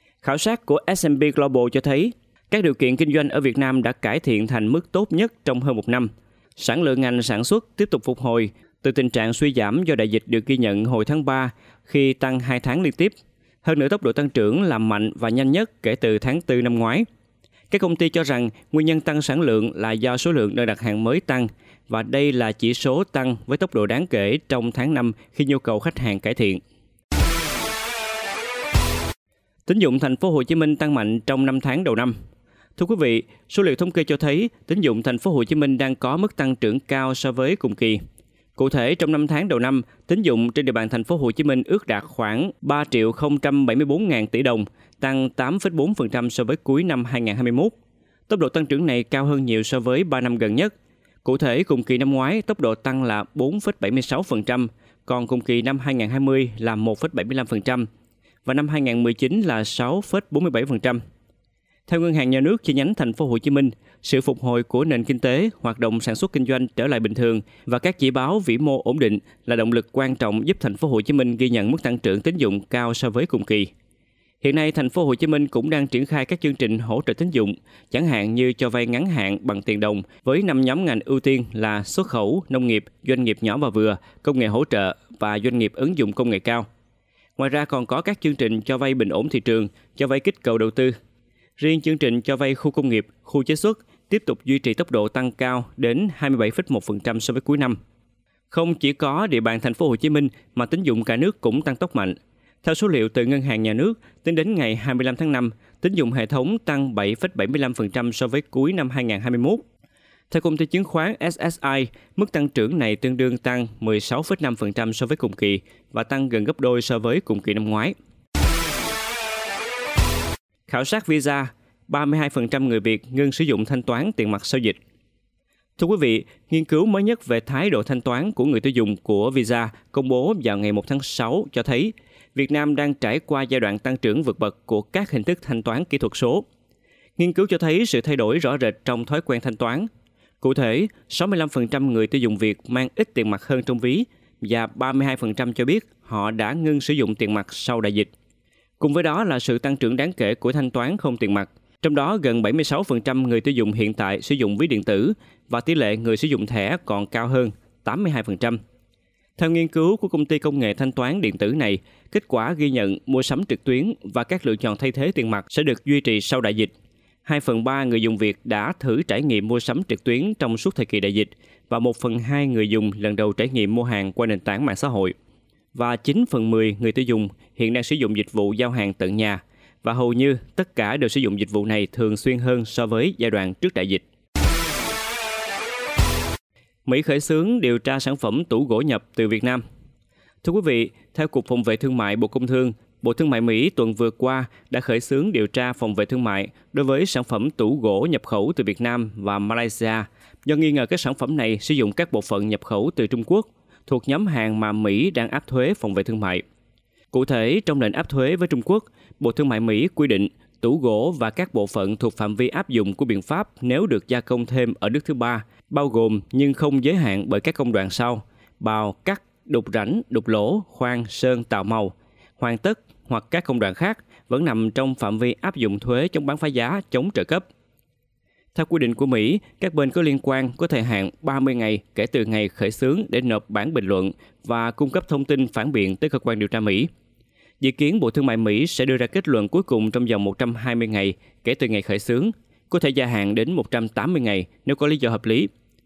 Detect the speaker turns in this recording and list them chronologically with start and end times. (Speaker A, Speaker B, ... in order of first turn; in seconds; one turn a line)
Speaker A: 0.2-17.1
Speaker A: 17.7-26.6
Speaker A: 29.7-32.1
Speaker A: 32.8-38.0
Speaker A: 38.6-47.7
Speaker A: 48.3-50.7
Speaker A: 51.2-57.9
Speaker A: 58.4-61.0
Speaker A: 61.9-73.7
Speaker A: 74.4-86.7
Speaker A: 87.4-90.9
Speaker A: 91.6-97.8
Speaker A: 98.5-109.6
Speaker A: 110.3-117.9
Speaker A: 120.7-124.8
Speaker A: 125.8-136.4
Speaker A: 137.2-139.9
Speaker A: 140.4-148.1
Speaker A: 148.8-158.6
Speaker A: 159.4-166.7
Speaker A: 167.2-175.1
Speaker A: 175.7-184.0
Speaker A: 186.9-189.6
Speaker A: 190.4-206.4
Speaker A: 207.1-227.4
Speaker A: 228.5-236.9
Speaker A: 237.6-245.5